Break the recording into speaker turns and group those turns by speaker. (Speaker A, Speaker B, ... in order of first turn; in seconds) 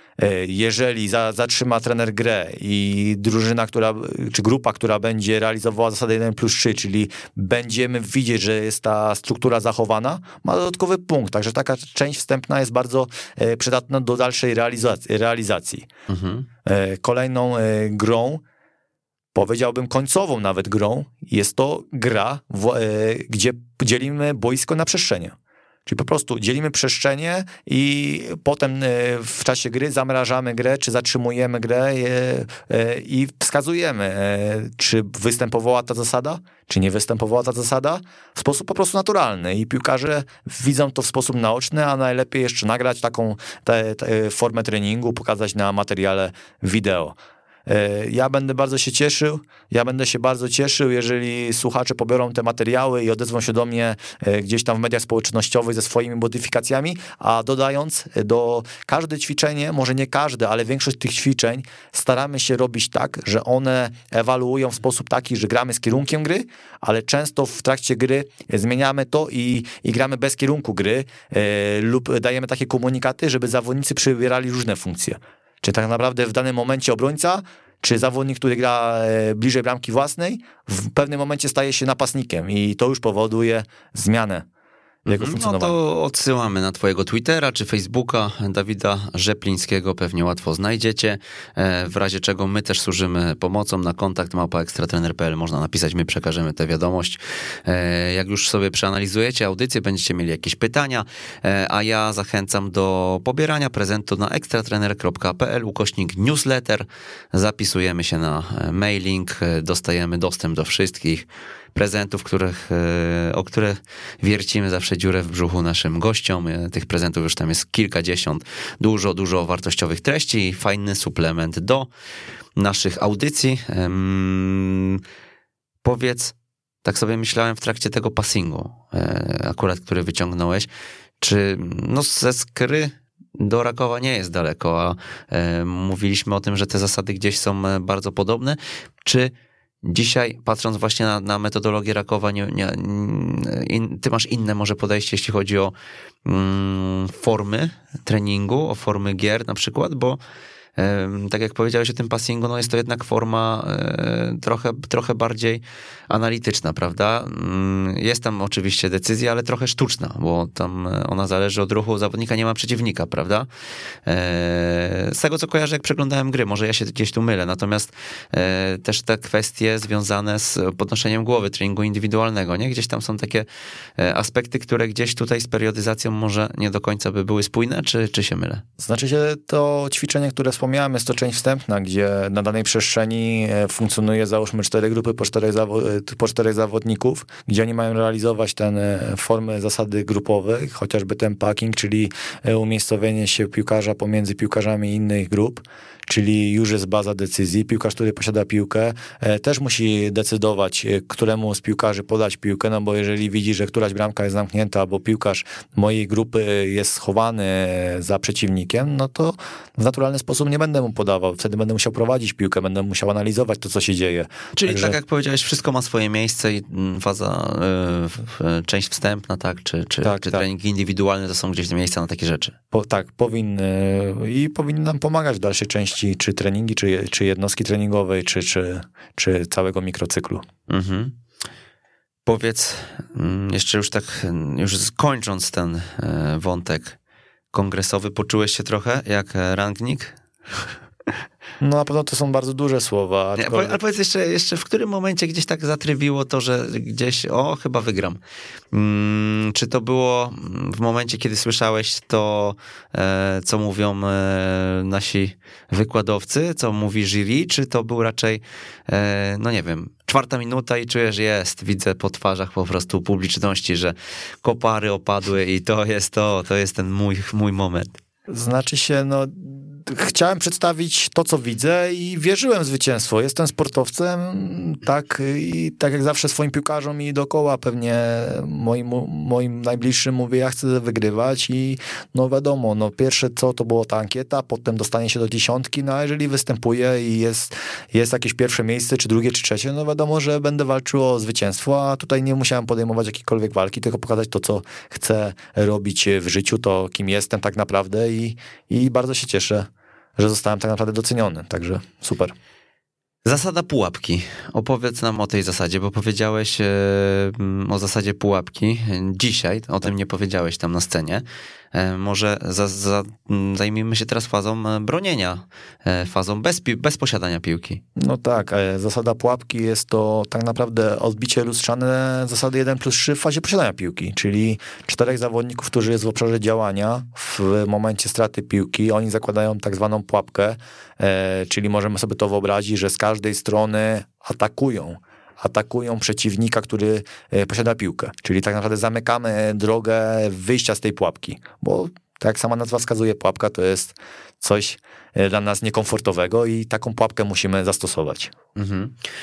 Speaker A: 0.2-15.9, 16.6-18.4, 19.3-25.3, 25.9-84.5, 85.1-85.7, 178.8-215.0, 220.0-220.4, 222.7-230.4, 241.6-243.8, 268.3-302.3, 318.0-348.3
Speaker B: 16.1-16.5, 85.1-121.9, 122.6-125.0, 125.8-130.7, 131.2-150.2, 150.8-163.5, 164.1-173.5, 174.0-178.6, 214.6-222.6, 230.7-231.2, 232.2-237.0, 237.5-240.2, 243.3-248.2, 248.7-268.0, 303.2-317.8, 348.6-349.0